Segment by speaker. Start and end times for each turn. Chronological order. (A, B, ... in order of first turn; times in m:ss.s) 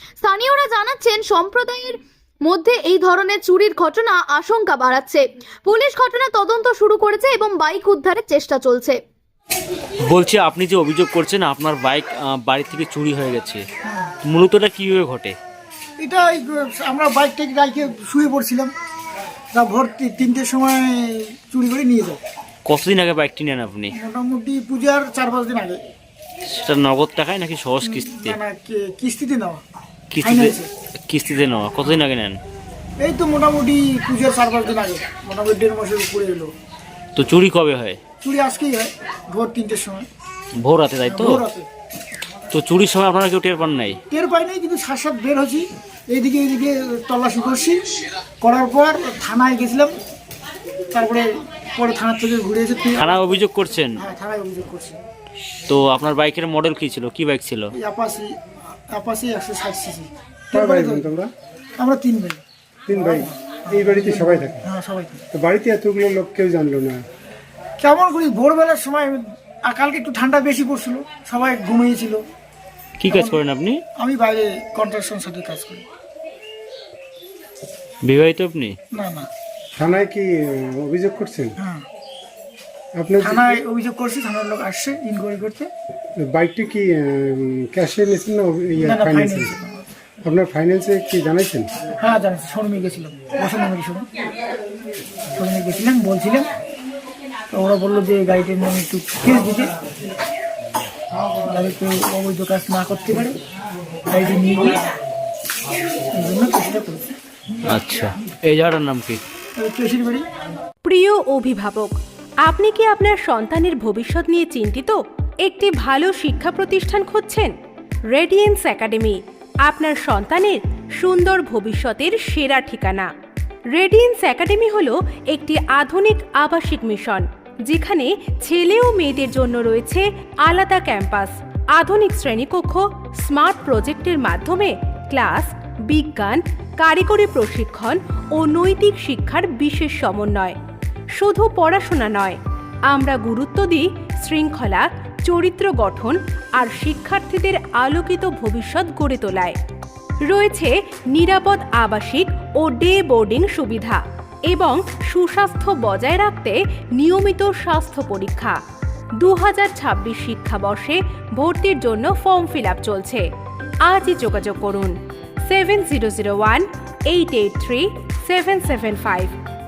0:00.2-0:02.0 A
0:02.5-0:09.0 A
0:10.0-0:13.6 B
0:14.2-0:15.4 B
0:16.0-0:18.7 C
0:19.5-0:22.2 C
0:22.6-0:23.9 B
0:24.0-0:25.8 C
0:26.5-0:28.4 B
0:27.8-0:29.6 C
0:30.1-0:30.6 B
0:30.2-0:30.7 C
0:31.1-0:32.4 B
0:33.0-0:36.5 C
0:37.2-0:38.0 B
0:38.2-0:40.1 C
0:40.6-0:41.4 B
0:41.0-0:41.6 C
0:42.5-0:44.0 B
0:44.1-0:47.8 C
0:48.4-0:49.9 C
0:50.9-0:53.1 C
0:53.0-0:54.0 B
0:54.0-0:55.0 C
0:55.7-0:57.7 B
0:57.8-0:58.3 C
0:58.9-1:01.1 C
1:00.5-1:01.3 D
1:01.8-1:05.2 C
1:02.9-1:04.6 D
1:05.3-1:07.0 D
1:07.8-1:12.2 C
1:13.0-1:13.8 B
1:13.0-1:13.4 C
1:14.0-1:15.8 C
1:18.0-1:18.7 B
1:18.9-1:19.3 C
1:19.8-1:21.6 D
1:21.6-1:21.8 C
1:23.0-1:23.6 D
1:23.2-1:25.7 C
1:26.2-1:29.5 D
1:28.8-1:29.8 C
1:30.2-1:31.7 D
1:32.0-1:34.0 C
1:35.3-1:36.5 C
1:37.5-1:39.7 C
1:41.4-1:43.3 C
1:44.1-1:44.8 C
1:46.2-1:47.1 C
1:47.6-1:49.2 B
1:49.6-1:50.2 C
1:50.8-1:57.5 E
1:58.1-2:03.1 E
2:03.7-2:20.6 E
2:21.2-2:22.4 E
2:22.9-2:29.6 E
2:30.3-2:38.6 E
2:39.2-2:43.2 E
2:43.9-2:44.9 E
2:45.5-2:49.3 E